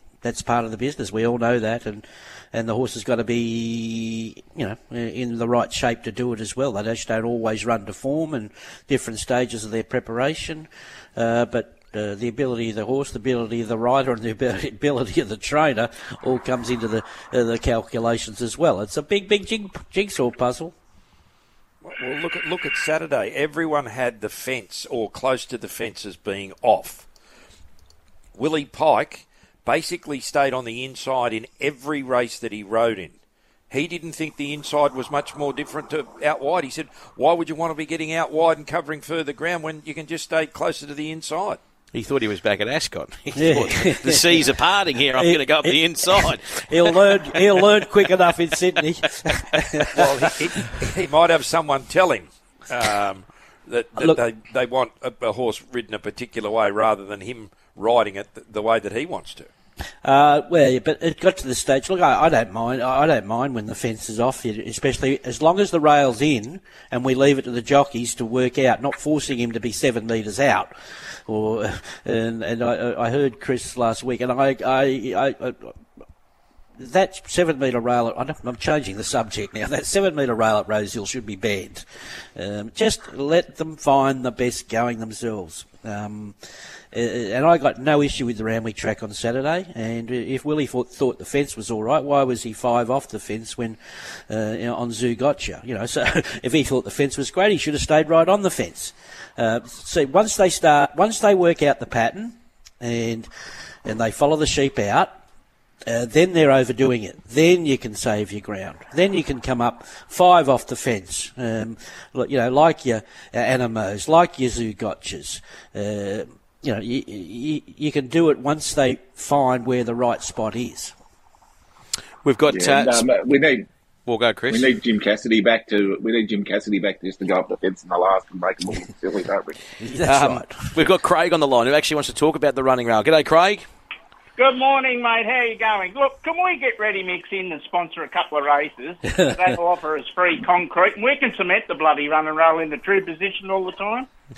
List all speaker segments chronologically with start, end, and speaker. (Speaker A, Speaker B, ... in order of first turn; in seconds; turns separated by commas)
Speaker A: 0.2-20.7, Speaker B: 21.9-27.1, Speaker B: 28.4-33.2, Speaker B: 33.7-41.6, Speaker C: 41.9-47.1, Speaker A: 43.3-44.5, Speaker A: 45.1-50.5, Speaker B: 49.9-59.5, Speaker A: 60.0-70.7, Speaker A: 71.2-75.8, Speaker A: 76.8-86.4, Speaker A: 86.9-103.3, Speaker A: 103.8-105.2, Speaker A: 105.8-120.9, Speaker C: 122.2-123.1, Speaker D: 122.5-123.7, Speaker C: 124.1-124.7, Speaker D: 124.5-129.6, Speaker A: 129.8-130.6, Speaker C: 130.1-133.7, Speaker E: 134.4-144.1